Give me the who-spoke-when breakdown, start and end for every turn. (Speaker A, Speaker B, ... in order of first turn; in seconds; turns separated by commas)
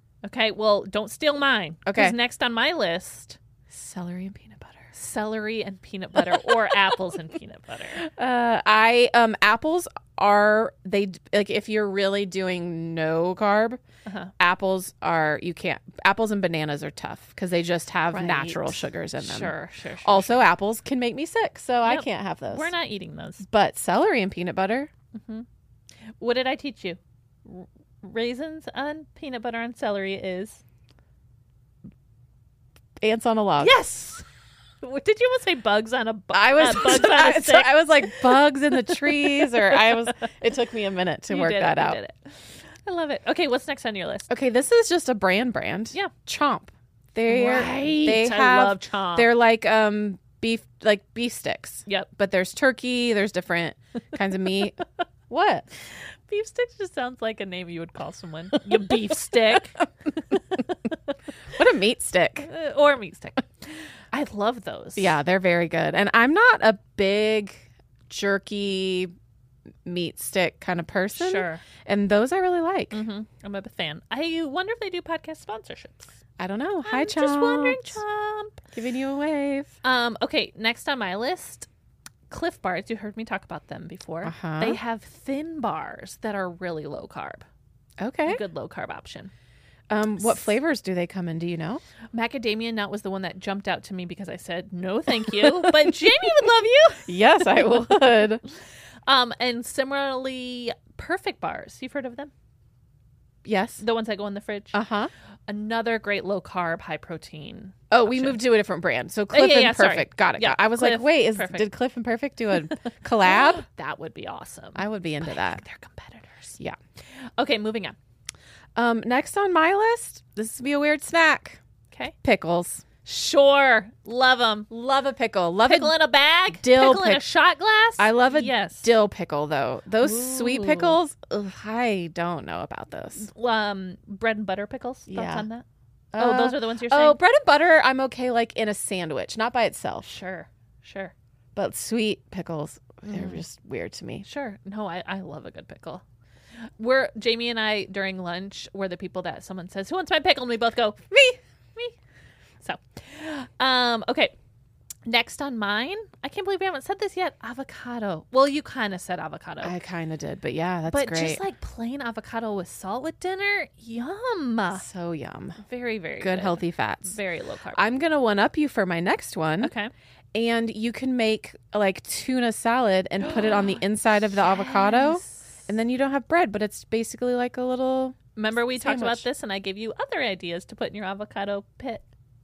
Speaker A: 0.2-3.4, Speaker B: 1.9-2.1, Speaker B: 3.7-4.9, Speaker A: 4.9-8.0, Speaker B: 6.3-6.7, Speaker B: 8.0-13.8, Speaker A: 14.1-14.3, Speaker B: 14.4-22.7, Speaker A: 18.1-20.4, Speaker A: 21.8-23.4, Speaker B: 23.4-24.9, Speaker A: 25.1-25.4, Speaker A: 26.2-30.6, Speaker B: 33.0-33.7, Speaker A: 33.6-34.2, Speaker A: 34.8-40.1, Speaker B: 36.3-42.0, Speaker A: 41.3-44.3, Speaker B: 44.3-54.8, Speaker A: 47.3-49.3, Speaker B: 55.3-55.7, Speaker A: 56.3-61.0, Speaker B: 61.5-62.5, Speaker A: 62.4-65.1, Speaker B: 65.0-69.1, Speaker B: 69.8-73.0, Speaker A: 71.1-71.6, Speaker A: 72.9-76.2, Speaker B: 76.4-78.0, Speaker A: 76.8-78.6, Speaker B: 78.7-79.7, Speaker A: 79.8-81.7, Speaker A: 82.3-87.4, Speaker B: 84.2-84.8, Speaker B: 88.0-88.4, Speaker A: 88.2-89.3, Speaker B: 89.9-91.8, Speaker A: 92.1-97.2, Speaker B: 97.0-98.4, Speaker A: 99.1-102.3, Speaker B: 103.4-103.8, Speaker A: 103.8-104.8, Speaker B: 104.7-105.1, Speaker A: 105.5-108.4, Speaker B: 107.9-113.6, Speaker A: 109.3-111.7, Speaker A: 113.2-116.6, Speaker B: 114.8-115.6, Speaker A: 117.4-118.0, Speaker B: 118.8-121.6, Speaker B: 122.2-122.8, Speaker A: 123.0-124.7, Speaker B: 124.7-125.9, Speaker A: 125.7-128.9, Speaker B: 126.5-127.2, Speaker B: 128.0-133.3, Speaker A: 130.0-131.0, Speaker A: 133.2-135.6, Speaker B: 135.1-135.5, Speaker B: 136.1-140.1, Speaker A: 136.2-137.2, Speaker A: 140.0-141.1, Speaker B: 141.5-144.2, Speaker A: 143.1-143.4, Speaker A: 144.2-146.0, Speaker A: 146.8-151.1, Speaker B: 151.1-151.4, Speaker A: 152.6-154.3, Speaker A: 155.0-159.7, Speaker B: 159.6-161.4, Speaker A: 160.9-164.8, Speaker B: 164.7-165.6, Speaker A: 165.6-167.8, Speaker B: 166.2-167.2, Speaker B: 167.7-169.7, Speaker A: 169.6-169.9, Speaker B: 170.3-178.2, Speaker A: 173.2-175.7, Speaker A: 178.3-182.0, Speaker B: 178.8-179.2